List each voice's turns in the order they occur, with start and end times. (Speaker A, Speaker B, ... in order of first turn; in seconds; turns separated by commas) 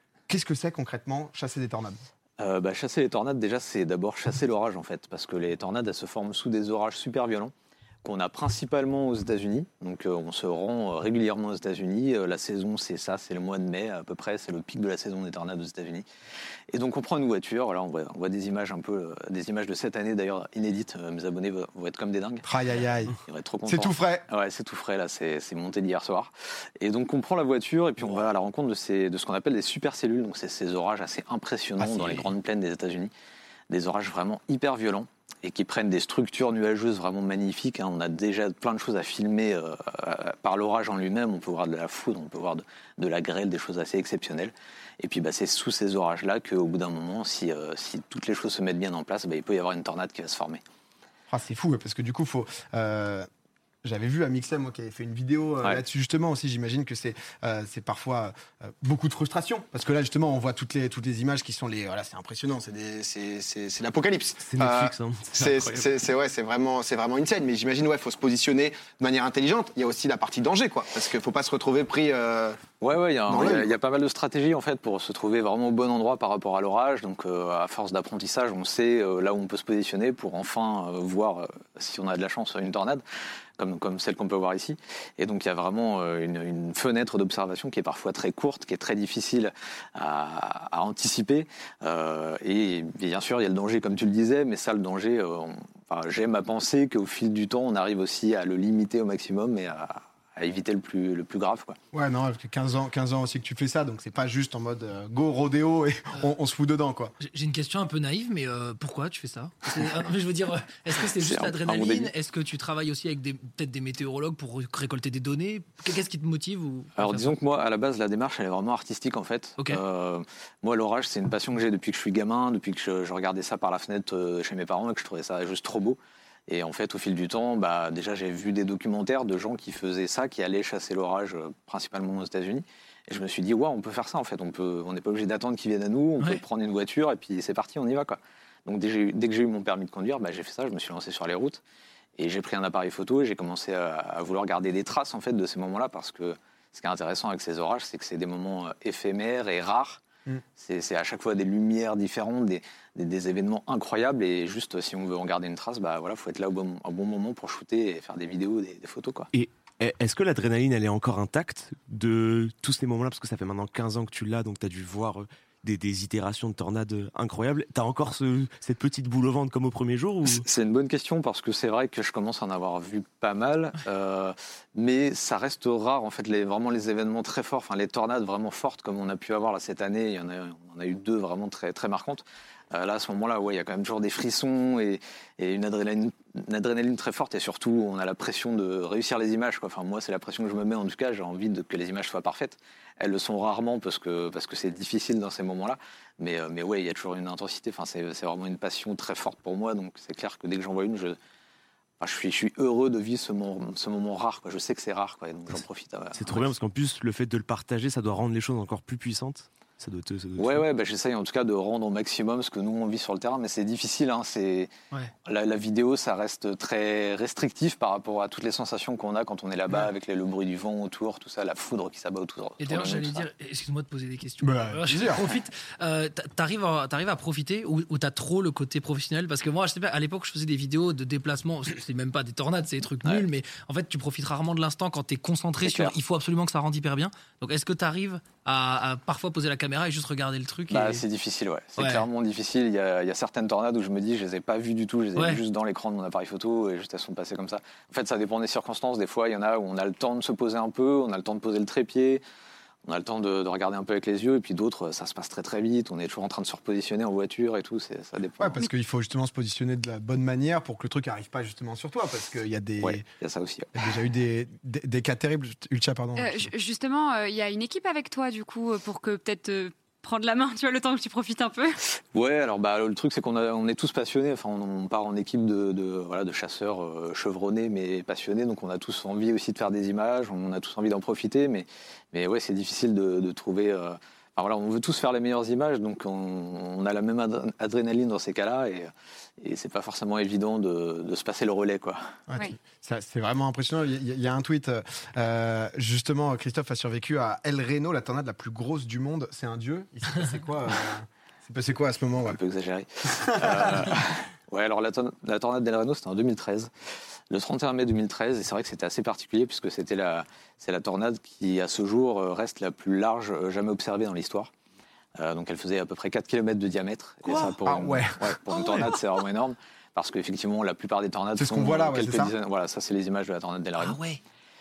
Speaker A: 0.3-2.0, Speaker B: 2.4-7.5, Speaker B: 8.0-16.0, Speaker B: 16.7-22.5, Speaker A: 22.4-24.2, Speaker B: 23.2-33.1, Speaker B: 33.7-50.6, Speaker A: 51.3-53.3, Speaker A: 53.8-72.6, Speaker C: 64.4-65.8, Speaker B: 72.8-83.0, Speaker A: 73.3-73.7, Speaker B: 83.6-101.8, Speaker A: 101.9-107.1, Speaker D: 107.2-117.4, Speaker B: 111.1-112.1, Speaker B: 117.0-141.6, Speaker B: 142.2-150.0, Speaker B: 150.6-159.3, Speaker C: 159.3-170.4, Speaker B: 170.2-201.2, Speaker B: 202.0-206.4, Speaker C: 206.1-210.6, Speaker B: 210.4-214.7, Speaker B: 215.2-223.3, Speaker D: 222.6-241.0, Speaker A: 224.4-225.3, Speaker B: 235.6-235.9, Speaker B: 240.7-252.2, Speaker D: 241.8-242.1, Speaker D: 245.2-245.4, Speaker B: 252.8-258.6, Speaker A: 258.4-263.1, Speaker B: 262.8-263.7, Speaker A: 263.7-266.5, Speaker E: 266.1-271.8, Speaker B: 272.1-288.9, Speaker B: 289.4-292.0, Speaker A: 292.3-302.4, Speaker B: 302.2-306.7, Speaker A: 303.1-303.9, Speaker B: 307.3-314.5, Speaker B: 315.2-324.0, Speaker C: 317.2-317.5, Speaker A: 317.6-318.4, Speaker C: 318.5-319.1, Speaker A: 321.4-322.3, Speaker D: 323.8-324.2